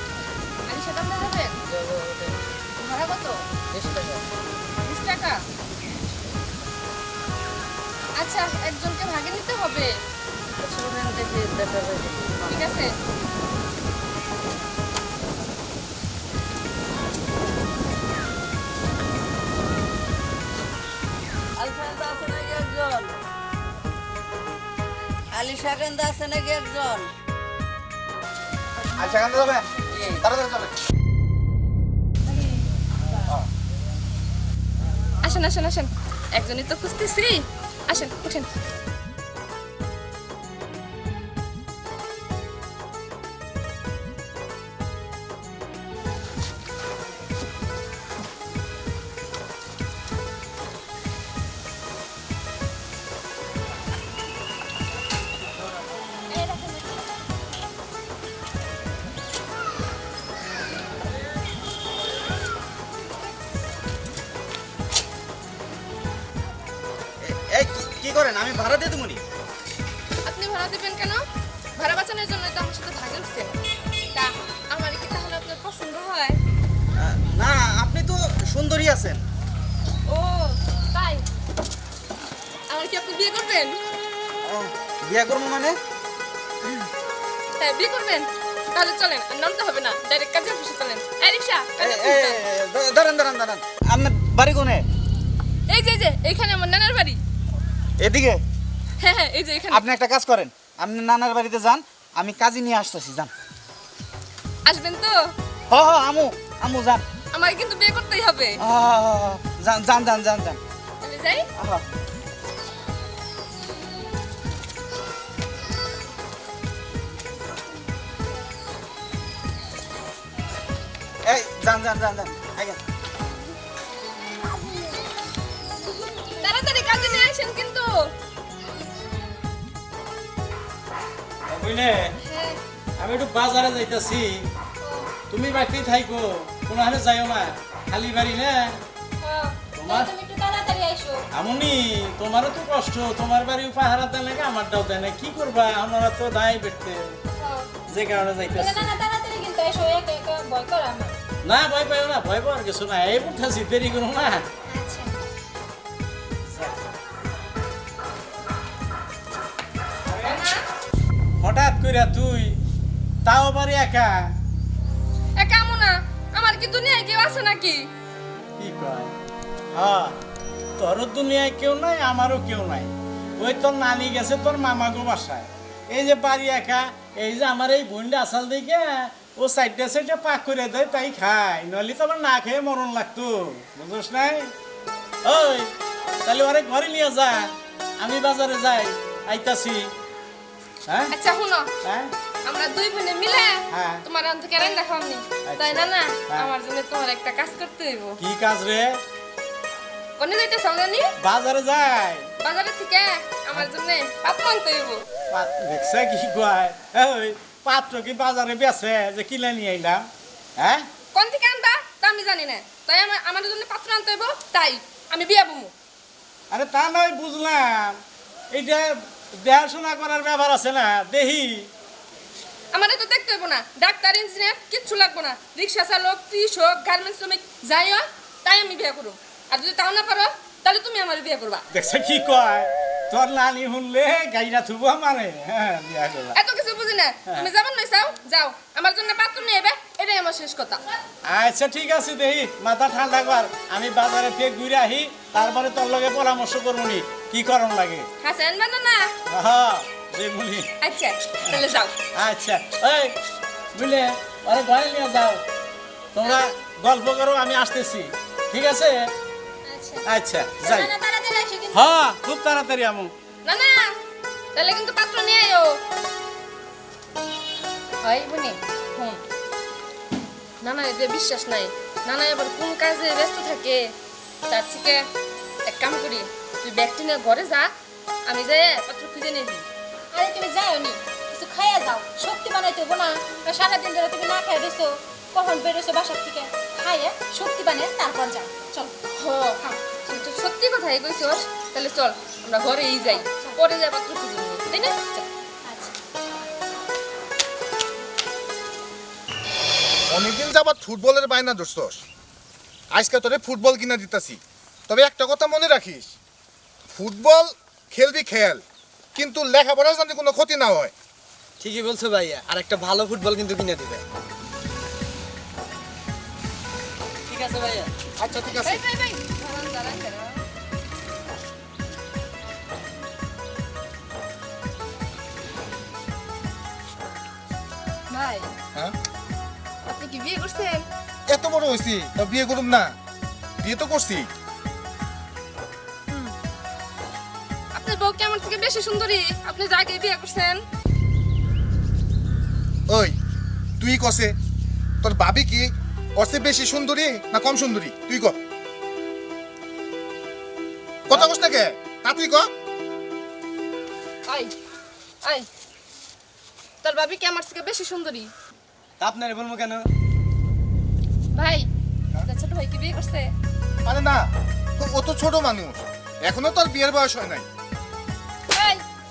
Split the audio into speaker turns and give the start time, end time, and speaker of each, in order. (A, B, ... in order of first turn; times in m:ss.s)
0:00.6-0:01.6 A
0:01.7-0:02.4 B
0:02.8-0:03.4 A
0:03.7-0:04.2 B
0:04.8-0:05.4 A
0:08.2-0:10.0 A
0:10.6-0:12.7 B
0:12.5-0:13.0 A
0:21.6-0:23.2 B
0:25.3-0:27.1 B
0:29.0-0:30.7 C
0:29.9-0:30.2 B
0:35.2-0:38.5 A
0:56.4-0:57.0 A
1:07.2-1:09.2 C
1:10.2-1:11.2 A
1:11.8-1:13.6 A
1:14.1-1:16.4 A
1:17.0-1:19.2 C
1:20.1-1:21.2 A
1:22.7-1:23.8 A
1:24.4-1:25.8 C
1:27.6-1:32.4 A
1:31.8-1:34.9 C
1:35.7-1:37.2 A
1:38.0-1:38.4 C
1:39.0-1:39.8 A
1:39.7-1:43.3 C
1:44.6-1:45.3 A
1:45.7-1:47.0 C
1:47.3-1:48.6 A
1:48.6-1:50.6 C
1:51.0-1:51.5 A
1:51.6-1:51.8 C
2:01.2-2:02.8 C
2:06.4-2:08.1 A
2:11.5-2:12.2 D
2:12.2-2:12.6 E
2:13.0-2:14.5 D
2:14.8-2:15.1 E
2:15.3-2:18.8 D
2:19.2-2:21.2 E
2:19.8-2:20.1 D
2:21.3-2:27.2 D
2:27.4-2:27.7 E
2:27.9-2:28.9 D
2:28.5-2:31.2 E
2:31.4-2:34.4 D
2:34.7-2:35.2 E
2:36.5-2:36.9 D
2:40.1-2:40.5 D
2:40.2-2:40.6 A
2:41.4-2:42.6 D
2:43.2-2:44.3 D
2:45.4-2:47.9 A
2:48.6-2:49.2 D
2:49.7-2:50.2 D
2:50.8-3:04.5 D
3:05.2-3:05.7 D
3:06.2-3:09.9 D
3:10.9-3:11.1 D
3:11.1-3:11.7 A
3:11.8-3:12.1 D
3:12.4-3:18.2 A
3:13.7-3:14.0 D
3:15.4-3:16.5 D
3:18.2-3:19.0 D
3:20.2-3:21.1 A
3:21.2-3:22.3 D
3:22.4-3:25.0 A
3:25.3-3:30.9 D
3:31.1-3:35.7 A
3:36.5-3:38.0 D
3:38.5-3:41.7 D
3:42.7-3:51.6 A
3:51.7-3:56.4 D
3:56.3-4:00.8 A
4:01.2-4:08.1 D
4:08.2-4:09.1 A
4:09.3-4:10.7 D
4:10.8-4:12.0 A
4:12.2-4:13.2 D
4:13.7-4:15.4 D
4:16.1-4:19.0 D
4:19.6-4:20.1 E
4:20.1-4:20.9 D
4:20.6-4:21.9 E
4:21.7-4:23.1 D
4:23.4-4:23.9 A
4:24.6-4:25.8 A
4:28.0-4:29.2 A
4:30.6-4:34.0 A
4:34.5-4:35.1 A
4:35.6-4:37.7 A
4:38.2-4:39.7 A
4:40.1-4:49.0 E
4:49.2-4:55.2 A
4:53.0-4:53.6 E
4:55.6-4:56.0 E
5:00.1-5:02.0 F
5:02.9-5:06.2 F
5:06.9-5:08.6 F
5:09.2-5:10.9 F
5:11.6-5:14.0 D
5:17.3-5:17.9 D
5:18.2-5:18.8 F
5:18.4-5:20.4 A
5:28.1-5:28.5 A
5:29.8-5:30.9 A
5:31.3-5:33.0 F
5:33.6-5:34.3 F
5:37.8-5:40.6 A
5:42.9-5:43.2 F
5:43.8-5:44.4 F
5:45.0-5:48.4 F
5:51.1-5:52.5 F
5:54.3-5:54.5 A
5:56.8-5:58.3 A
5:59.0-5:59.9 D
6:01.3-6:01.7 A
6:02.2-6:03.3 A
6:03.8-6:07.5 F
6:08.5-6:08.8 A